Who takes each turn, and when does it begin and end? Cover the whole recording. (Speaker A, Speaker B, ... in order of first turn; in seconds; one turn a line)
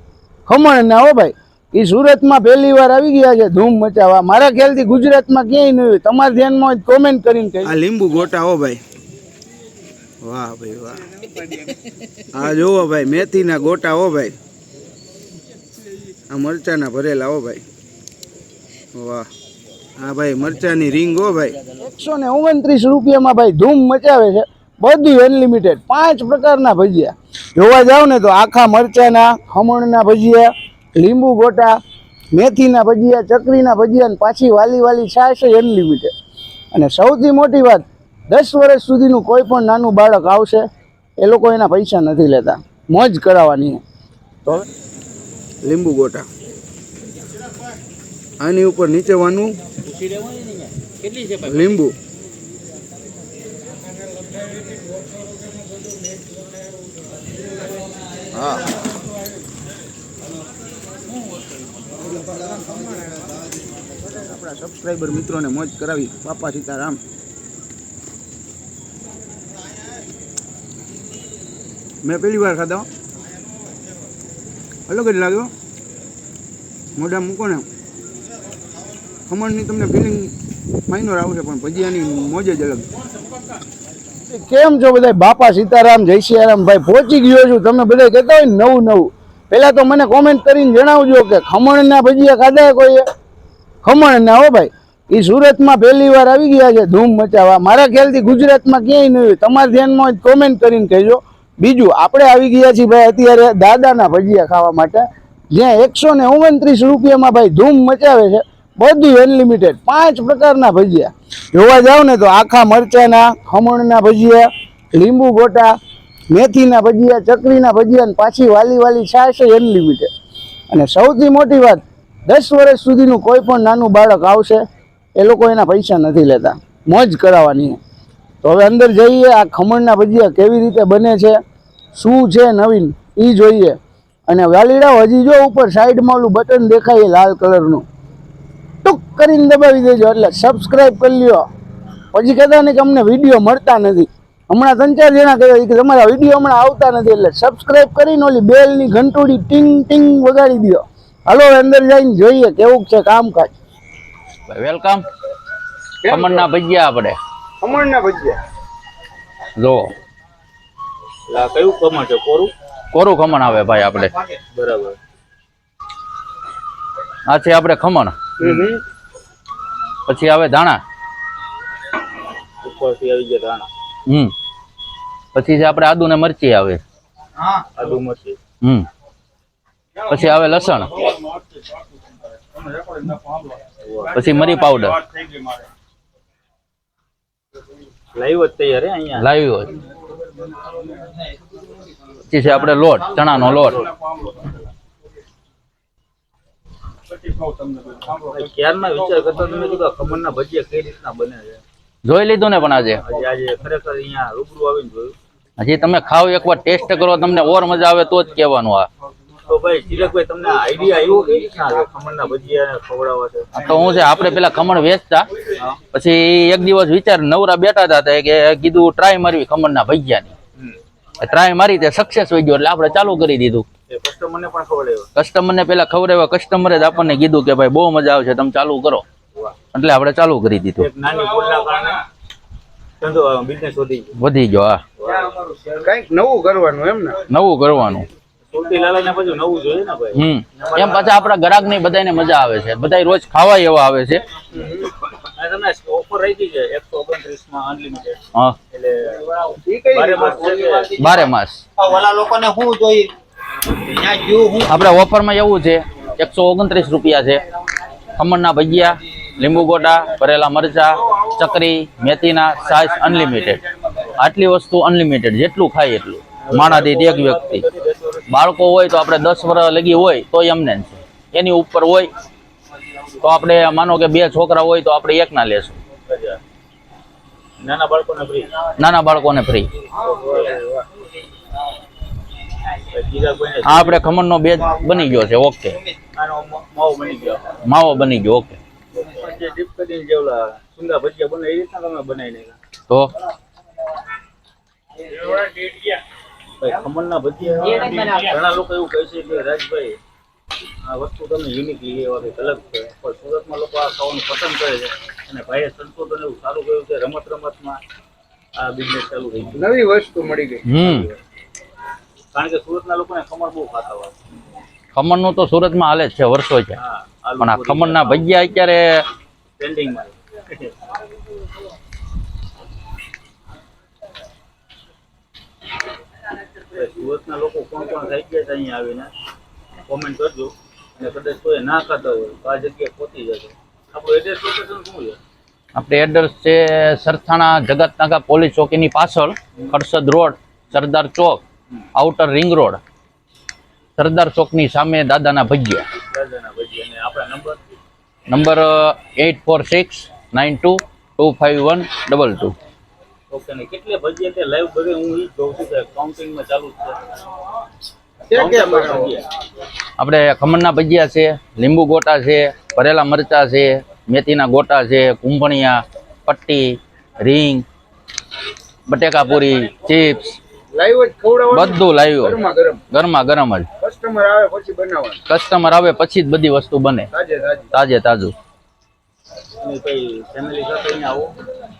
Speaker A: 0.5-7.7
Speaker B: 7.6-8.8
Speaker B: 10.2-11.1
Speaker B: 12.3-14.3
Speaker B: 16.3-17.6
Speaker B: 18.9-19.3
Speaker B: 20.0-21.6
Speaker A: 21.7-31.8
Speaker A: 32.3-36.1
Speaker A: 36.7-40.6
Speaker A: 41.2-43.8
Speaker B: 45.6-46.2
Speaker B: 48.4-49.6
Speaker C: 49.9-51.3
Speaker D: 50.0-50.6
Speaker B: 51.3-51.9
Speaker B: 58.3-58.6
Speaker B: 64.1-67.0
Speaker B: 72.0-72.9
Speaker B: 74.9-75.5
Speaker B: 77.0-77.7
Speaker B: 79.3-80.3
Speaker B: 80.9-82.8
Speaker A: 84.3-93.0
Speaker A: 93.8-115.7
Speaker A: 116.3-120.1
Speaker A: 120.7-124.6
Speaker A: 125.2-127.8
Speaker A: 128.4-131.4
Speaker A: 131.9-133.8
Speaker A: 134.3-137.8
Speaker A: 138.8-141.4
Speaker A: 142.1-153.5
Speaker D: 154.5-155.0
Speaker B: 156.1-156.4
Speaker D: 156.1-157.2
Speaker A: 157.6-158.3
Speaker D: 159.6-159.9
Speaker E: 161.3-162.5
Speaker D: 162.9-164.1
Speaker E: 164.5-165.0
Speaker D: 167.2-168.2
Speaker E: 168.4-168.7
Speaker A: 168.4-168.7
Speaker D: 170.1-170.8
Speaker E: 172.6-173.7
Speaker D: 174.1-174.3
Speaker D: 175.3-176.8
Speaker E: 177.4-178.4
Speaker D: 178.6-178.9
Speaker D: 180.1-181.1
Speaker E: 181.0-185.7
Speaker D: 184.1-185.0
Speaker E: 188.1-189.3
Speaker D: 189.2-189.8
Speaker D: 192.3-193.8
Speaker E: 193.1-194.5
Speaker E: 198.1-201.6
Speaker D: 202.0-203.0
Speaker E: 202.9-205.2
Speaker D: 205.6-208.9
Speaker E: 209.4-213.8
Speaker D: 213.5-215.3
Speaker D: 215.9-220.3
Speaker D: 221.2-223.7
Speaker E: 223.9-225.1
Speaker D: 225.2-229.0
Speaker D: 229.7-230.9
Speaker E: 230.8-232.0
Speaker E: 233.0-234.1
Speaker D: 234.2-234.8
Speaker E: 235.0-235.5
Speaker B: 235.8-237.2
Speaker A: 235.9-237.0
Speaker D: 237.3-238.1
Speaker E: 238.5-241.3
Speaker D: 240.1-244.2
Speaker A: 244.6-244.8
Speaker E: 245.2-251.3
Speaker B: 249.7-250.7
Speaker D: 250.9-251.6
Speaker E: 251.8-252.9
Speaker C: 252.4-253.1
Speaker E: 253.9-254.6
Speaker D: 254.6-257.4
Speaker D: 258.1-263.6
Speaker D: 264.2-267.6
Speaker E: 266.4-268.3
Speaker D: 268.3-272.1
Speaker D: 273.2-275.8
Speaker E: 276.1-276.4
Speaker E: 277.6-278.6
Speaker D: 278.8-279.7
Speaker E: 280.0-280.6
Speaker E: 282.9-284.1
Speaker D: 283.6-285.8
Speaker E: 286.1-287.6
Speaker D: 287.6-288.6
Speaker E: 288.9-292.6
Speaker D: 292.9-293.1
Speaker E: 295.2-295.8
Speaker E: 296.6-300.0
Speaker E: 300.8-307.8
Speaker E: 308.5-309.7
Speaker B: 309.9-310.3
Speaker A: 310.1-310.4
Speaker D: 310.6-311.1
Speaker E: 310.7-311.2
Speaker E: 312.3-314.1
Speaker D: 314.9-316.8
Speaker E: 316.8-318.3
Speaker D: 317.4-319.1
Speaker E: 319.6-320.7
Speaker E: 326.7-329.1
Speaker E: 329.9-335.2
Speaker D: 335.7-341.4
Speaker D: 341.9-342.8
Speaker D: 344.0-345.9
Speaker E: 346.1-347.6
Speaker D: 348.3-352.6
Speaker E: 353.3-357.2
Speaker A: 358.3-359.1
Speaker E: 358.3-359.3
Speaker D: 360.0-367.6
Speaker D: 368.9-370.4
Speaker B: 370.7-372.8
Speaker D: 371.5-372.4
Speaker D: 372.9-373.7
Speaker B: 373.8-375.2
Speaker D: 375.3-377.1
Speaker B: 377.1-377.7
Speaker D: 377.7-378.3
Speaker E: 379.6-381.4